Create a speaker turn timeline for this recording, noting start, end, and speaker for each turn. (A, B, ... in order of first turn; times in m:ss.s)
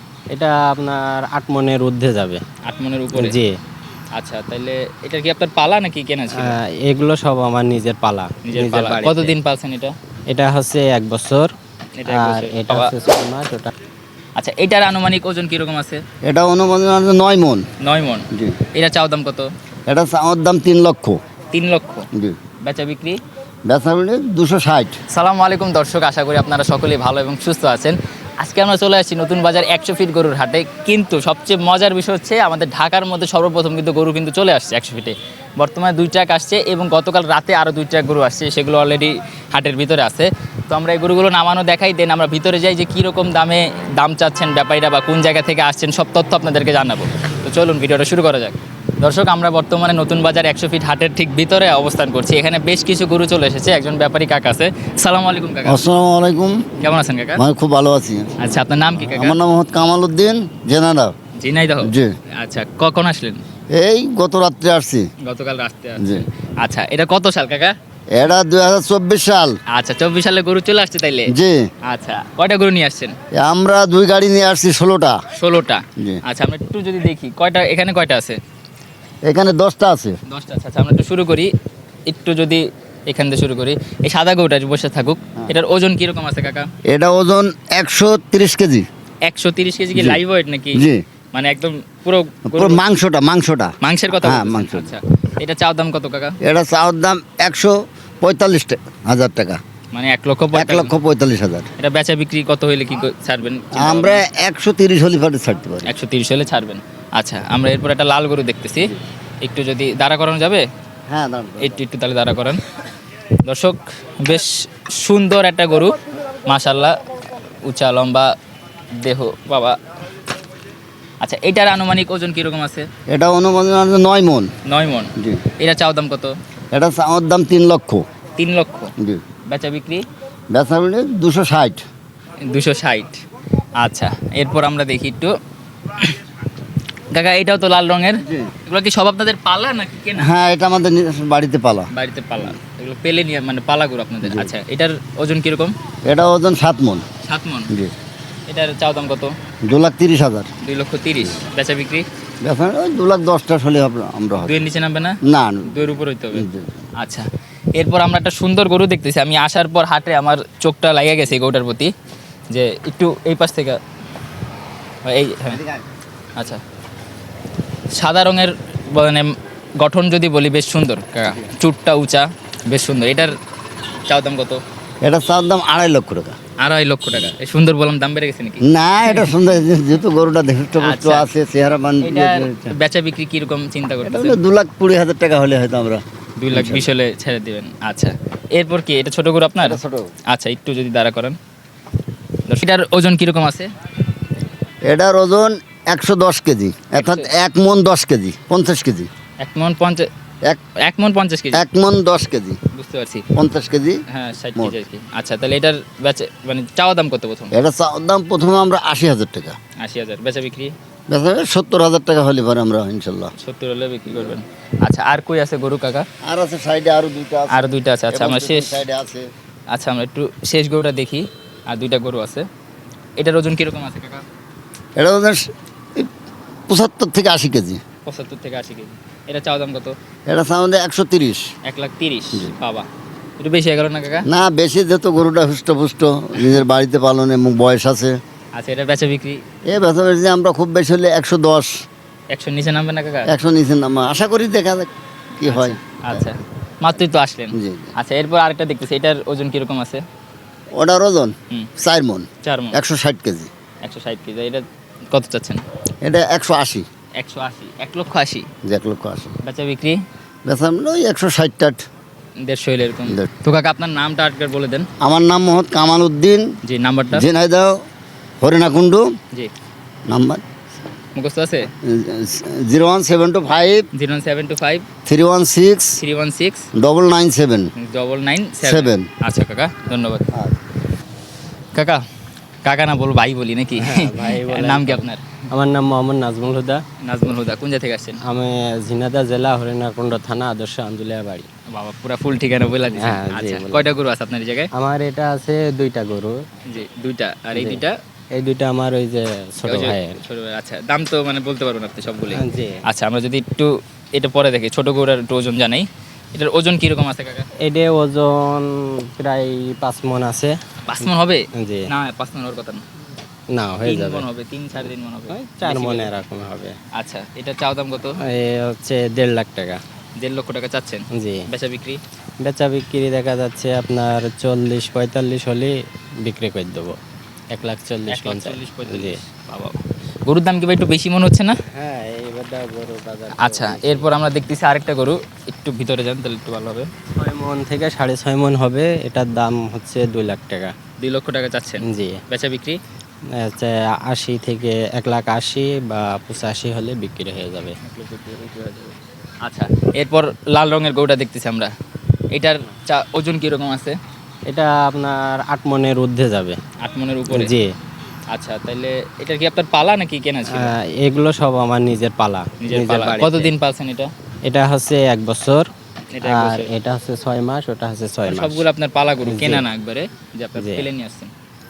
0:00.3-0:02.4 A
0:02.6-0:03.4 B
0:03.1-0:03.5 A
0:04.2-0:06.6 B
0:06.3-0:09.4 A
0:08.4-0:09.9 B
0:10.3-0:11.5 A
0:12.0-0:12.9 B
0:12.1-0:13.7 A
0:14.4-0:16.0 B
0:16.2-0:17.6 C
0:17.8-0:19.5 B
0:18.3-0:18.6 C
0:19.9-0:21.2 C
0:21.5-0:22.1 B
0:22.6-0:23.2 B
0:23.7-0:25.0 C
0:25.1-0:55.8 B
0:55.6-0:56.6 C
0:56.8-0:57.4 B
0:57.4-0:58.3 C
0:58.4-0:59.4 B
0:59.0-1:01.1 C
1:01.4-1:03.4 B
1:01.8-1:02.1 C
1:03.7-1:05.1 C
1:05.2-1:07.8 B
1:06.0-1:06.2 C
1:08.1-1:09.5 C
1:09.7-1:11.3 B
1:11.3-1:11.6 C
1:11.8-1:13.2 B
1:13.4-1:15.2 C
1:15.4-1:18.4 B
1:19.2-1:20.2 C
1:20.3-1:21.5 B
1:22.1-1:26.7 B
1:26.9-1:28.9 C
1:29.2-1:32.8 B
1:29.9-1:30.2 C
1:30.7-1:31.0 C
1:32.5-1:34.9 C
1:33.8-1:36.4 B
1:36.4-1:39.6 C
1:39.9-1:40.9 B
1:40.5-1:41.7 C
1:41.8-1:44.2 B
1:43.7-1:45.9 C
1:45.8-1:50.7 B
1:51.1-1:51.7 C
1:51.6-1:52.7 B
1:53.4-1:57.0 B
1:57.6-1:58.3 B
1:59.0-1:59.8 B
2:01.2-2:02.9 B
2:03.1-2:04.5 C
2:04.7-2:06.3 B
2:05.2-2:05.4 C
2:06.7-2:08.0 C
2:08.4-2:08.9 B
2:09.5-2:10.0 B
2:10.5-2:11.8 C
2:12.4-2:13.2 B
2:13.8-2:15.3 B
2:17.1-2:20.3 B
2:18.2-2:18.5 C
2:20.2-2:21.9 C
2:21.9-2:25.7 B
2:24.2-2:24.5 C
2:26.1-2:27.0 C
2:27.2-2:27.7 B
2:28.5-2:29.3 B
2:29.7-2:30.5 C
2:30.6-2:32.1 B
2:32.4-2:34.6 C
2:34.4-2:36.4 B
2:35.2-2:36.8 C
2:37.0-2:41.9 B
2:42.5-2:43.8 B
2:45.0-2:45.6 B
2:45.5-2:45.8 C
2:48.0-2:53.4 B
2:54.1-2:54.6 B
2:55.0-2:56.4 C
2:56.6-2:59.4 B
2:58.6-3:02.8 C
3:00.8-3:01.3 B
3:02.0-3:04.4 B
3:04.0-3:06.9 C
3:06.4-3:11.4 B
3:09.6-3:10.1 C
3:12.4-3:13.7 B
3:14.8-3:19.1 C
3:17.0-3:17.3 B
3:19.4-3:20.1 B
3:20.8-3:21.6 B
3:21.5-3:22.6 C
3:22.7-3:23.3 B
3:23.3-3:24.0 C
3:24.1-3:27.6 B
3:27.5-3:29.6 C
3:29.8-3:30.7 B
3:31.1-3:33.3 C
3:33.4-3:36.1 B
3:36.2-3:37.6 C
3:37.5-3:38.8 B
3:38.1-3:39.3 C
3:39.7-3:42.5 B
3:43.2-3:44.2 B
3:45.0-3:46.1 C
3:46.7-3:47.8 C
3:48.0-3:50.0 B
3:50.3-3:51.4 C
3:51.6-3:52.9 B
3:53.4-3:54.3 B
3:54.2-3:58.2 C
3:56.4-3:56.6 B
3:58.6-3:59.4 B
3:59.7-4:01.8 C
4:02.3-4:03.3 B
4:03.2-4:06.2 C
4:05.4-4:10.0 B
4:07.5-4:07.9 C
4:10.8-4:13.5 C
4:12.4-4:12.8 B
4:13.8-4:15.6 B
4:16.0-4:16.9 C
4:17.2-4:18.5 B
4:18.6-4:19.3 C
4:19.4-4:20.0 B
4:20.5-4:21.9 C
4:22.4-4:24.9 B
4:25.0-4:26.5 C
4:26.7-4:27.2 B
4:27.1-4:27.7 C
4:28.4-4:29.1 C
4:30.1-4:30.4 C
4:31.1-4:31.7 B
4:31.8-4:33.9 C
4:33.9-4:34.9 B
4:35.1-4:36.0 C
4:36.0-4:36.6 B
4:36.8-4:37.7 C
4:37.8-4:40.3 B
4:38.6-4:39.1 C
4:41.8-4:42.0 B
4:42.6-4:45.2 B
4:43.8-4:46.8 A
4:47.0-4:48.2 B
4:48.3-4:51.5 A
4:51.7-4:54.7 B
4:53.0-4:53.9 A
4:54.8-4:56.4 A
4:56.7-4:57.9 B
4:57.5-4:57.8 A
4:58.4-5:00.2 A
4:59.6-5:07.5 B
5:02.3-5:02.8 A
5:07.6-5:10.6 A
5:10.9-5:12.8 B
5:11.6-5:11.9 A
5:13.6-5:14.2 A
5:13.8-5:16.1 B
5:15.3-5:16.7 A
5:17.0-5:18.2 B
5:18.2-5:19.8 A
5:20.2-5:22.0 B
5:21.1-5:21.4 A
5:22.4-5:25.7 A
5:26.2-5:26.9 A
5:27.5-5:29.2 A
5:28.1-5:31.6 B
5:31.8-5:34.1 A
5:33.4-5:36.9 B
5:37.1-5:40.7 A
5:41.0-5:42.8 B
5:41.8-5:42.2 A
5:43.4-5:47.8 A
5:47.8-5:51.7 B
5:52.3-5:54.0 B
5:54.5-5:56.6 A
5:56.8-5:57.5 B
5:57.3-5:57.7 A
5:58.3-6:00.7 B
6:00.5-6:03.5 A
6:02.6-6:04.1 B
6:04.5-6:05.6 A
6:06.1-6:06.7 B
6:06.2-6:08.6 A
6:08.2-6:11.3 B
6:09.2-6:09.6 A
6:10.6-6:10.9 A